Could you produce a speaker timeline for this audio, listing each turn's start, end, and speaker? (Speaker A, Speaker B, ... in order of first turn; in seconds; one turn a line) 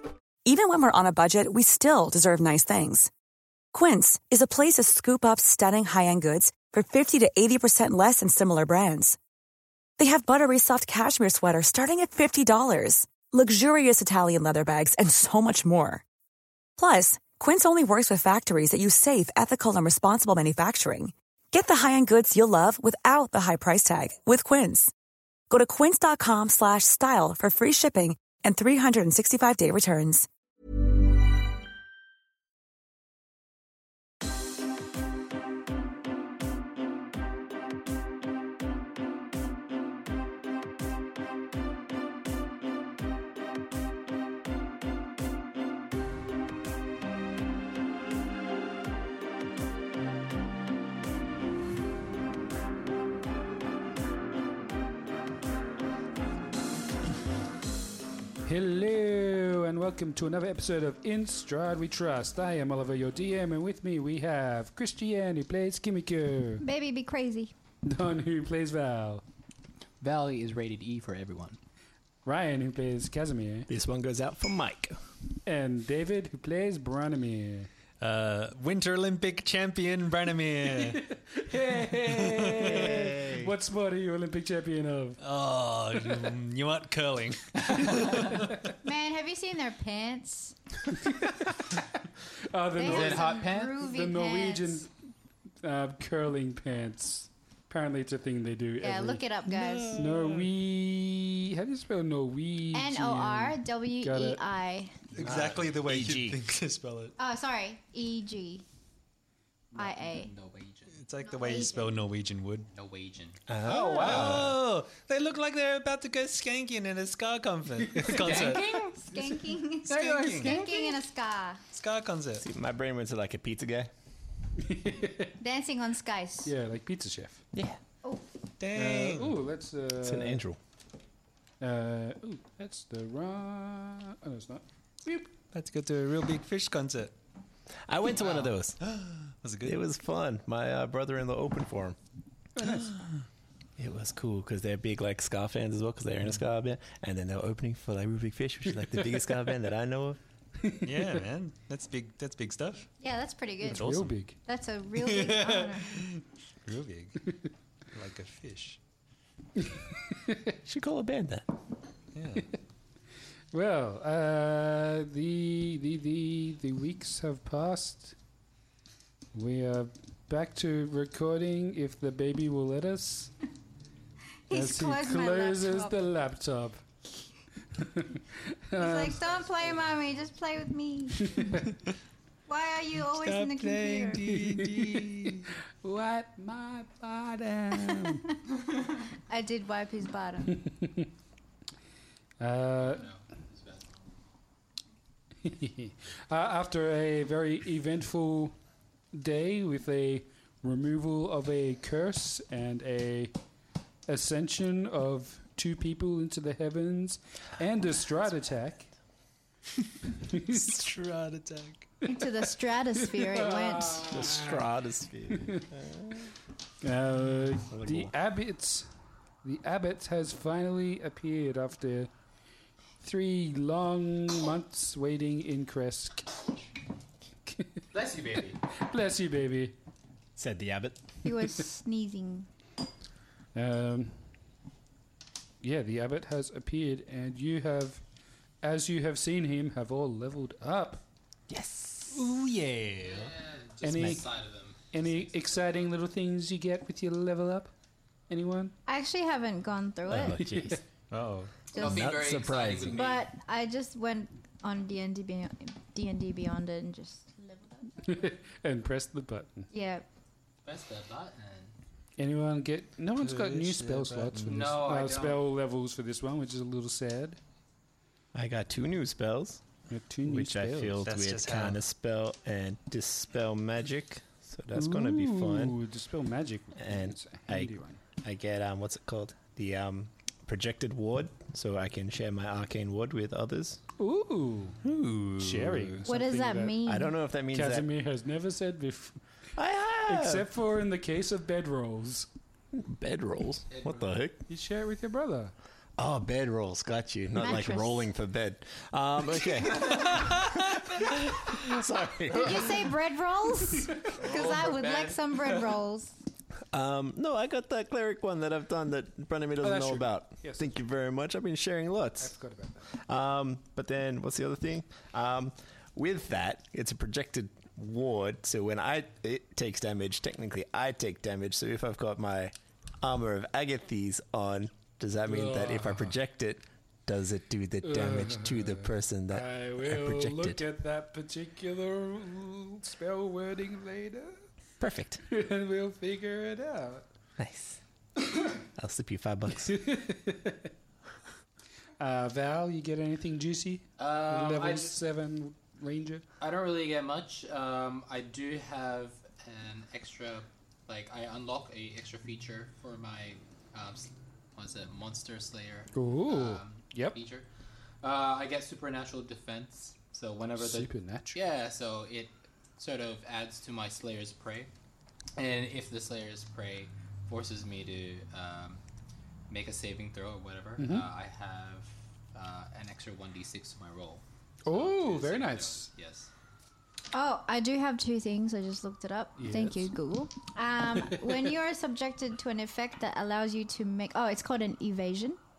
Speaker A: 0.5-3.1
Speaker A: 3.7-9.2
Speaker A: 10.0-16.0
Speaker A: 16.8-24.9
Speaker A: 25.5-30.3
Speaker B: 58.4-66.6
Speaker C: 66.6-67.5
Speaker B: 67.8-69.2
Speaker D: 70.0-71.6
Speaker B: 72.2-73.7
Speaker E: 73.7-75.0
Speaker B: 75.5-77.7
Speaker F: 78.0-81.0
Speaker B: 80.7-85.2
Speaker F: 82.1-82.8
Speaker E: 82.6-83.5
Speaker F: 85.2-88.5
Speaker D: 87.8-88.3
Speaker C: 88.8-90.6
Speaker B: 92.5-94.9
Speaker C: 92.7-94.9
Speaker D: 92.8-93.8
Speaker B: 95.6-99.2
Speaker C: 98.8-100.0
Speaker F: 99.5-100.5
Speaker B: 100.0-104.4
Speaker C: 102.7-105.0
Speaker F: 105.1-107.1
Speaker E: 105.2-106.4
Speaker C: 107.2-108.6
Speaker D: 109.7-111.0
Speaker C: 109.8-110.3
Speaker F: 111.0-112.7
Speaker C: 111.2-112.0
Speaker D: 112.7-113.4
Speaker E: 113.5-114.6
Speaker F: 113.7-118.8
Speaker D: 114.0-114.3
Speaker D: 118.1-119.0
Speaker C: 118.3-121.6
Speaker F: 119.9-120.9
Speaker D: 120.4-120.7
Speaker F: 121.7-122.5
Speaker E: 122.4-123.9
Speaker B: 124.6-125.3
Speaker C: 125.4-126.5
Speaker B: 126.5-127.4
Speaker E: 127.5-127.8
Speaker F: 128.6-129.4
Speaker B: 128.8-130.4
Speaker E: 130.0-130.6
Speaker B: 131.6-135.3
Speaker F: 135.5-137.1
Speaker E: 137.9-138.8
Speaker F: 138.8-139.9
Speaker E: 139.6-142.0
Speaker B: 142.6-143.0
Speaker F: 142.6-143.2
Speaker E: 143.8-150.2
Speaker F: 150.8-152.9
Speaker C: 153.0-156.0
Speaker B: 153.7-154.4
Speaker F: 155.0-157.2
Speaker F: 157.9-158.8
Speaker B: 160.1-160.5
Speaker E: 160.7-161.5
Speaker F: 162.2-162.5
Speaker B: 163.5-168.2
Speaker B: 169.3-173.3
Speaker C: 174.5-176.0
Speaker B: 174.5-176.8
Speaker B: 177.8-179.2
Speaker C: 178.8-181.6
Speaker B: 181.2-181.7
Speaker C: 182.5-184.2
Speaker F: 183.1-185.5
Speaker B: 184.6-185.1
Speaker B: 185.8-188.2
Speaker C: 187.7-188.3
Speaker C: 189.3-190.6
Speaker B: 190.5-191.1
Speaker B: 192.4-193.1
Speaker D: 192.8-194.1
Speaker B: 195.4-198.6
Speaker B: 199.1-203.3
Speaker B: 204.1-208.9
Speaker B: 210.3-210.7
Speaker F: 210.4-211.9
Speaker C: 212.1-214.3
Speaker B: 213.1-214.6
Speaker E: 214.1-216.3
Speaker B: 215.4-215.6
Speaker B: 216.8-218.9
Speaker E: 217.7-218.1
Speaker B: 219.4-222.1
Speaker B: 223.0-226.4
Speaker B: 227.5-227.8
Speaker D: 227.9-228.6
Speaker B: 228.8-229.8
Speaker E: 230.4-231.1
Speaker C: 231.2-232.5
Speaker B: 233.6-234.2
Speaker B: 235.6-238.0
Speaker B: 238.6-241.0
Speaker E: 241.5-242.2
Speaker F: 242.1-243.3
Speaker D: 243.0-245.9
Speaker B: 243.8-244.3
Speaker B: 244.9-247.7
Speaker B: 248.3-248.8
Speaker C: 248.9-250.4
Speaker E: 250.1-250.8
Speaker B: 250.4-250.7
Speaker F: 251.1-251.6
Speaker D: 251.7-253.2
Speaker C: 251.7-252.4
Speaker E: 251.8-253.1
Speaker C: 252.9-258.3
Speaker B: 258.0-259.7
Speaker C: 259.7-260.1
Speaker D: 260.6-261.8
Speaker B: 262.2-267.4
Speaker F: 263.2-264.8
Speaker D: 264.4-265.4
Speaker E: 268.3-269.6
Speaker B: 269.9-271.0
Speaker E: 270.2-275.8
Speaker F: 271.0-271.8
Speaker B: 274.7-278.0
Speaker E: 276.8-283.8
Speaker B: 284.0-284.8
Speaker F: 284.8-286.0
Speaker B: 285.4-286.8
Speaker C: 286.1-287.2
Speaker E: 286.9-287.9
Speaker B: 287.5-289.2
Speaker E: 289.6-290.5
Speaker B: 290.1-292.3
Speaker E: 292.7-294.4
Speaker D: 293.7-294.2
Speaker B: 294.5-295.5
Speaker E: 296.0-302.9
Speaker C: 297.4-298.1
Speaker C: 302.2-306.1
Speaker D: 304.2-305.1
Speaker E: 306.7-312.3
Speaker B: 309.6-310.7
Speaker B: 312.2-312.9
Speaker E: 312.9-330.6
Speaker B: 325.2-326.2
Speaker B: 327.8-334.4
Speaker E: 334.8-335.2
Speaker B: 335.3-337.0
Speaker E: 337.4-337.8
Speaker E: 338.8-339.8
Speaker B: 339.6-340.7
Speaker B: 342.0-346.2
Speaker D: 344.0-345.0
Speaker D: 346.4-357.4
Speaker B: 355.9-357.2
Speaker D: 358.0-364.7
Speaker B: 360.6-361.4
Speaker D: 365.4-368.8
Speaker D: 369.5-376.3
Speaker B: 370.8-371.1
Speaker B: 374.7-375.9
Speaker C: 377.1-385.4
Speaker B: 379.4-379.9